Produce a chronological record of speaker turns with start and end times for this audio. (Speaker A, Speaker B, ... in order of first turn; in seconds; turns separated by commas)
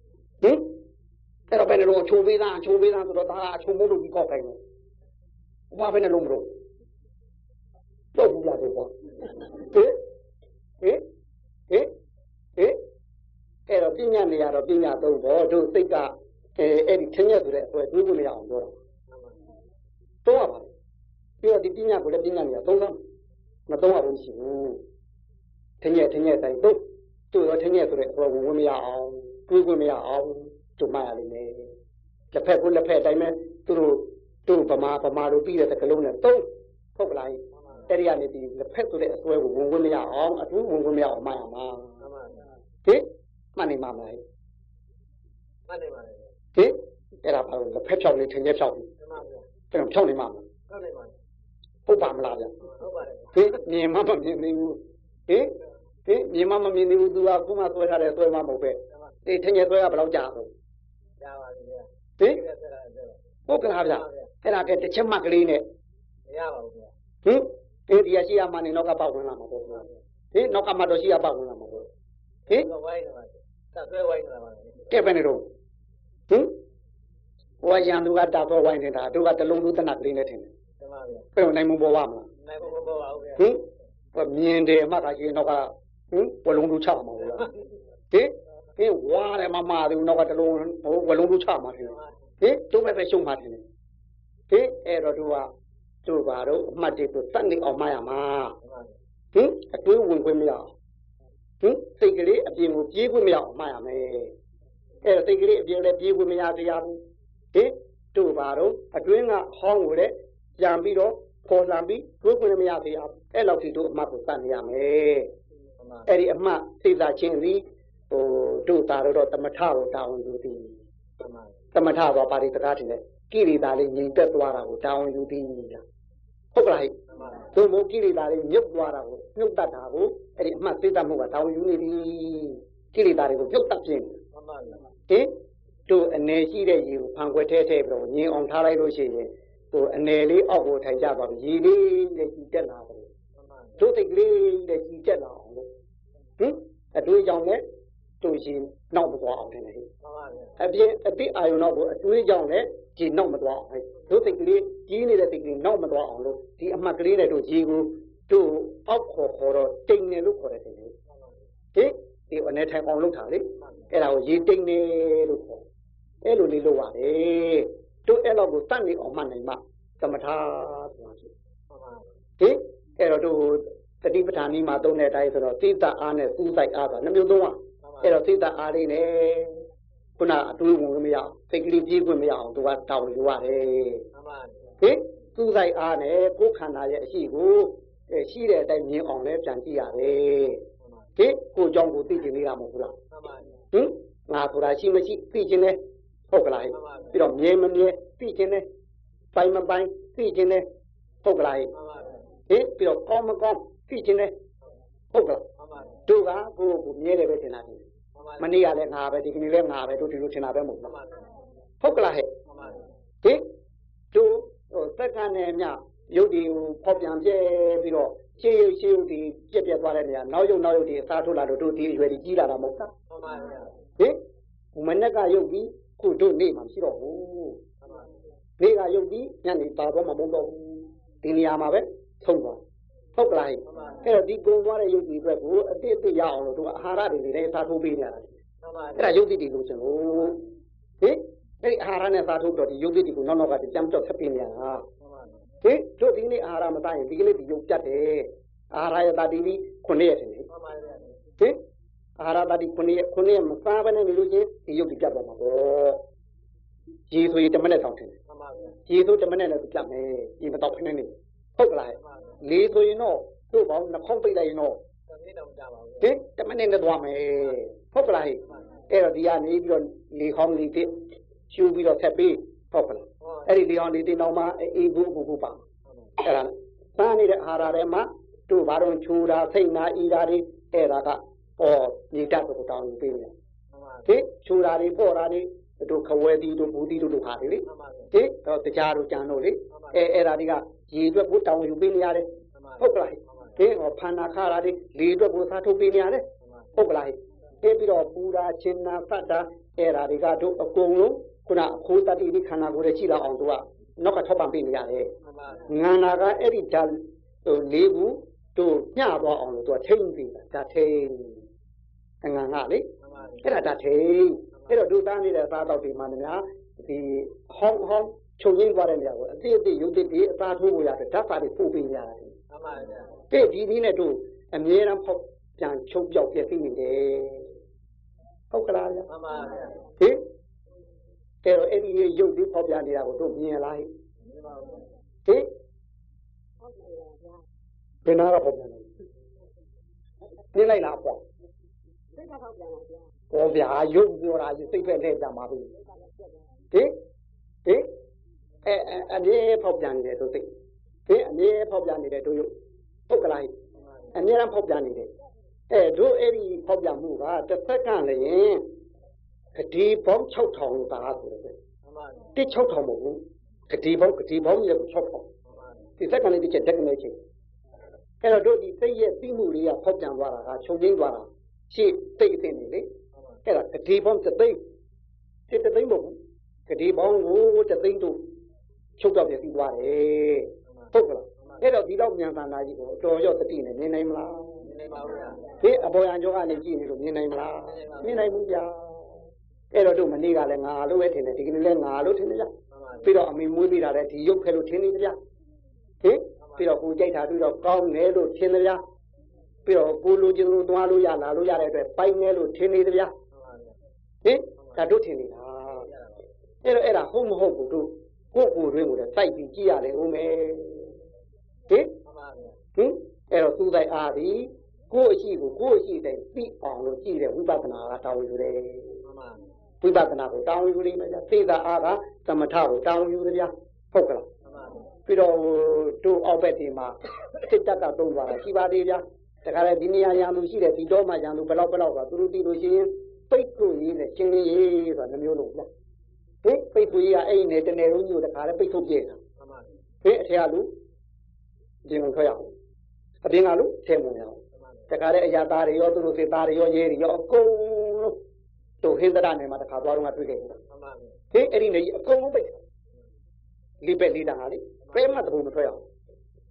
Speaker A: 0.4-0.8, Speaker A: 1.5-4.6, Speaker A: 5.7-6.5, Speaker A: 8.1-10.0, Speaker A: 13.7-18.8, Speaker A: 20.2-20.7, Speaker A: 21.4-23.0, Speaker A: 23.7-24.8, Speaker A: 25.8-31.7, Speaker A: 32.3-41.9, Speaker B: 37.5-37.9, Speaker B: 42.0-42.5, Speaker A: 42.9-44.2, Speaker B: 45.7-46.3, Speaker A: 46.5-48.9, Speaker B: 49.0-49.5, Speaker A: 49.7-50.5, Speaker B: 50.7-51.1, Speaker A: 51.9-52.6, Speaker B: 52.6-53.6, Speaker A: 53.3-55.5, Speaker A: 56.1-60.5, Speaker B: 61.2-63.2, Speaker A: 63.5-65.7, Speaker B: 63.8-64.3, Speaker B: 66.3-66.9, Speaker A: 67.2-71.9, Speaker B: 72.5-75.0, Speaker A: 74.9-75.5, Speaker A: 76.3-76.6, Speaker A: 77.6-80.5, Speaker B: 80.8-81.3, Speaker A: 81.3-82.3, Speaker B: 82.4-83.5, Speaker A: 84.1-87.5, Speaker A: 88.1-93.6, Speaker B: 91.8-92.2, Speaker A: 94.5-95.5, Speaker A: 96.0-98.5, Speaker B: 98.6-98.9, Speaker A: 99.3-100.7, Speaker A: 101.6-104.3, Speaker A: 105.0-107.0, Speaker A: 107.5-115.3, Speaker B: 115.8-116.1, Speaker A: 116.1-120.8, Speaker B: 121.2-121.5, Speaker A: 121.7-125.8, Speaker A: 126.5-127.0, Speaker B: 127.1-127.5, Speaker A: 127.5-134.2, Speaker B: 134.3-134.9, Speaker A: 135.1-135.3, Speaker A: 135.9-143.1, Speaker B: 143.4-143.8, Speaker A: 143.8-145.7, Speaker A: 146.4-147.6, Speaker A: 148.2-149.9, Speaker B: 150.0-150.6, Speaker A: 150.6-160.9, Speaker B: 161.1-161.4, Speaker A: 161.7-165.6, Speaker B: 163.6-163.9, Speaker A: 166.2-171.3, Speaker B: 171.7-172.0, Speaker A: 172.4-179.6, Speaker B: 177.8-178.2, Speaker A: 180.2-184.1, Speaker B: 184.1-184.8, Speaker A: 184.8-190.6, Speaker A: 191.2-193.0, Speaker B: 193.1-193.5, Speaker A: 193.7-195.8, Speaker A: 196.3-198.7, Speaker B: 196.7-197.2, Speaker A: 199.3-200.7, Speaker A: 201.2-201.7, Speaker B: 201.7-202.3, Speaker A: 202.5-204.3, Speaker A: 205.1-205.5, Speaker B: 205.6-206.0, Speaker A: 206.1-207.8, Speaker B: 208.2-208.6, Speaker A: 208.4-210.9, Speaker B: 210.8-211.3, Speaker A: 211.8-212.3, Speaker B: 212.5-212.9, Speaker A: 214.1-222.9, Speaker B: 223.1-223.7, Speaker A: 224.7-227.6, Speaker B: 227.8-228.1, Speaker A: 228.6-232.6, Speaker A: 233.2-238.4, Speaker B: 233.7-234.1, Speaker B: 238.6-239.2, Speaker A: 239.0-240.4, Speaker A: 241.0-244.9, Speaker B: 245.0-245.5, Speaker A: 245.6-250.5, Speaker B: 250.5-251.2, Speaker A: 252.2-256.0, Speaker A: 257.1-258.1, Speaker B: 258.3-258.8, Speaker A: 258.9-264.8, Speaker B: 261.9-262.4, Speaker B: 265.1-266.1, Speaker A: 266.0-270.9, Speaker A: 271.5-275.6, Speaker B: 273.2-273.5, Speaker B: 275.9-276.2, Speaker A: 276.2-283.3, Speaker B: 283.7-284.1, Speaker A: 284.1-292.3, Speaker B: 287.6-288.1, Speaker B: 289.7-290.1, Speaker B: 292.6-293.6, Speaker A: 292.8-305.1, Speaker B: 296.4-296.7, Speaker B: 305.2-305.8, Speaker A: 305.7-311.4, Speaker A: 312.2-312.9, Speaker B: 313.0-313.5, Speaker A: 313.4-322.4, Speaker B: 322.5-323.2, Speaker A: 323.3-327.6, Speaker A: 328.5-329.1, Speaker B: 329.1-329.8, Speaker A: 330.0-330.2, Speaker A: 331.4-333.9, Speaker B: 334.3-334.9, Speaker C: 336.6-337.4, Speaker A: 338.1-338.9, Speaker A: 340.5-341.2, Speaker C: 342.1-343.1, Speaker A: 343.3-345.7, Speaker C: 345.8-346.5, Speaker A: 346.7-347.0, Speaker A: 347.6-347.9, Speaker A: 348.6-350.5, Speaker A: 351.1-352.5, Speaker A: 353.1-353.5, Speaker B: 353.8-354.2, Speaker A: 354.1-355.1, Speaker A: 355.7-358.7, Speaker A: 359.6-361.6, Speaker B: 361.9-362.3, Speaker A: 362.4-365.3, Speaker B: 365.5-365.9, Speaker A: 366.0-367.2, Speaker A: 368.2-372.9, Speaker B: 373.1-373.4, Speaker A: 373.5-374.6, Speaker A: 375.5-378.3, Speaker A: 379.0-384.6, Speaker B: 380.7-381.6, Speaker B: 384.6-385.6, Speaker A: 385.6-389.2, Speaker B: 387.6-388.3, Speaker A: 389.7-392.5, Speaker B: 392.7-393.2, Speaker A: 393.0-395.2, Speaker A: 396.0-398.8, Speaker B: 396.4-396.7, Speaker A: 399.7-403.1, Speaker B: 403.3-403.8, Speaker A: 404.2-405.9, Speaker B: 404.6-404.8, Speaker B: 405.7-406.2, Speaker A: 406.6-410.9, Speaker B: 412.0-412.6, Speaker A: 412.8-419.0, Speaker B: 419.0-419.4, Speaker A: 419.8-424.3, Speaker B: 424.4-424.9, Speaker A: 425.1-435.7, Speaker A: 436.4-439.2, Speaker B: 439.4-439.7, Speaker A: 440.0-440.7, Speaker A: 441.9-442.5, Speaker A: 443.2-448.2, Speaker B: 444.5-444.9, Speaker A: 448.8-450.6, Speaker B: 450.7-451.2, Speaker A: 451.3-452.6, Speaker A: 453.8-455.9